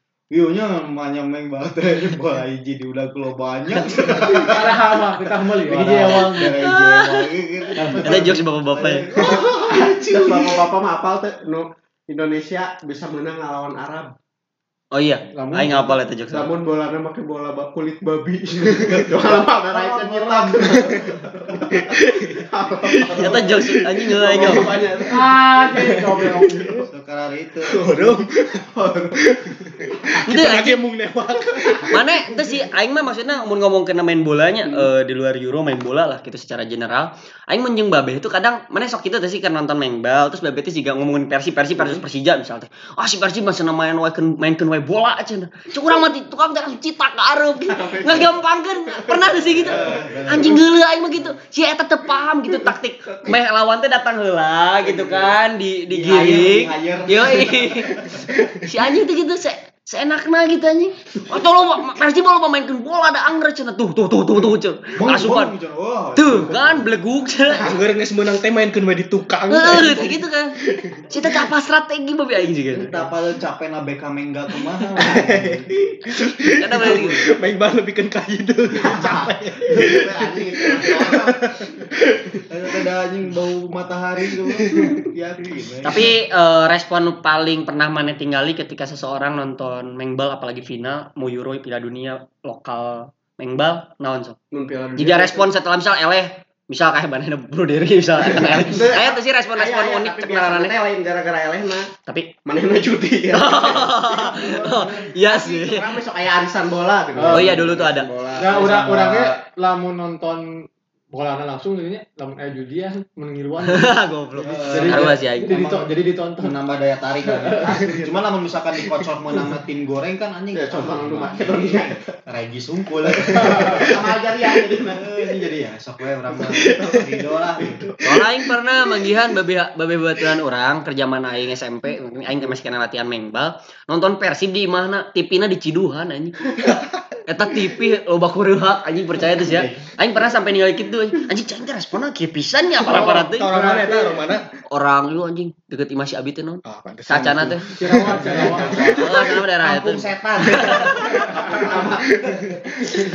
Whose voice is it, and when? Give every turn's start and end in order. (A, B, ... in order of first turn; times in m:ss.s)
0:00.3-0:10.6 A
0:04.2-0:06.5 B
0:06.1-0:07.3 C
0:07.8-0:08.4 B
0:08.0-0:09.0 C
0:09.1-0:14.1 D
0:14.9-0:16.6 C
0:15.3-0:16.0 B
0:16.3-0:23.5 D
0:19.2-0:21.8 A
0:21.9-0:25.0 E
0:23.0-0:23.5 A
0:23.2-0:24.7 C
0:24.1-0:26.0 D
0:25.1-0:26.9 B
0:25.7-0:26.7 E
0:26.9-0:27.9 A
0:27.6-0:28.6 E
0:27.8-0:29.2 D
0:29.2-0:32.0 E
0:29.9-0:30.2 D
0:30.2-0:30.8 C
0:31.4-0:31.9 D
0:31.9-0:58.0 C
0:34.6-0:34.9 D
0:41.8-0:42.0 D
0:47.7-0:48.4 D
0:48.9-0:50.1 D
0:49.6-0:50.6 A
0:54.8-0:55.3 D
0:55.9-0:58.3 A
0:58.6-1:05.5 C
1:04.9-1:06.9 A
1:06.2-1:07.7 C
1:07.5-1:11.1 E
1:09.5-1:10.6 C
1:11.1-1:12.9 C
1:12.7-1:15.7 A
1:14.9-1:22.4 E
1:16.6-1:17.2 C
1:18.7-1:21.4 D
1:20.8-1:21.1 A
1:22.5-1:26.1 A
1:25.8-1:34.4 C
1:34.5-1:35.5 D
1:35.0-1:40.7 C
1:38.2-1:41.9 D
1:42.0-1:42.3 C
1:42.4-1:48.6 D
1:43.3-1:45.9 C
1:44.2-1:45.0 A
1:47.1-1:47.7 B
1:47.3-1:48.1 C
1:48.4-1:56.6 B
1:48.4-1:49.4 A
1:53.7-1:55.7 C
1:54.4-1:55.7 A
1:56.4-2:07.9 A
1:57.3-1:57.8 B
1:57.8-1:58.2 D
2:00.5-2:02.0 D
2:03.1-2:05.5 D
2:06.3-2:08.3 D
2:08.0-2:16.3 C
2:17.3-2:23.5 C
2:19.3-2:19.9 A
2:22.9-2:23.4 B
2:23.0-2:24.4 E
2:23.5-2:24.2 D
2:24.7-2:27.7 C
2:26.6-2:29.1 E
2:27.8-2:29.0 B
2:28.0-2:33.0 A
2:28.8-2:30.1 C
2:30.6-2:31.6 E
2:31.3-2:32.1 D
2:32.2-2:33.0 E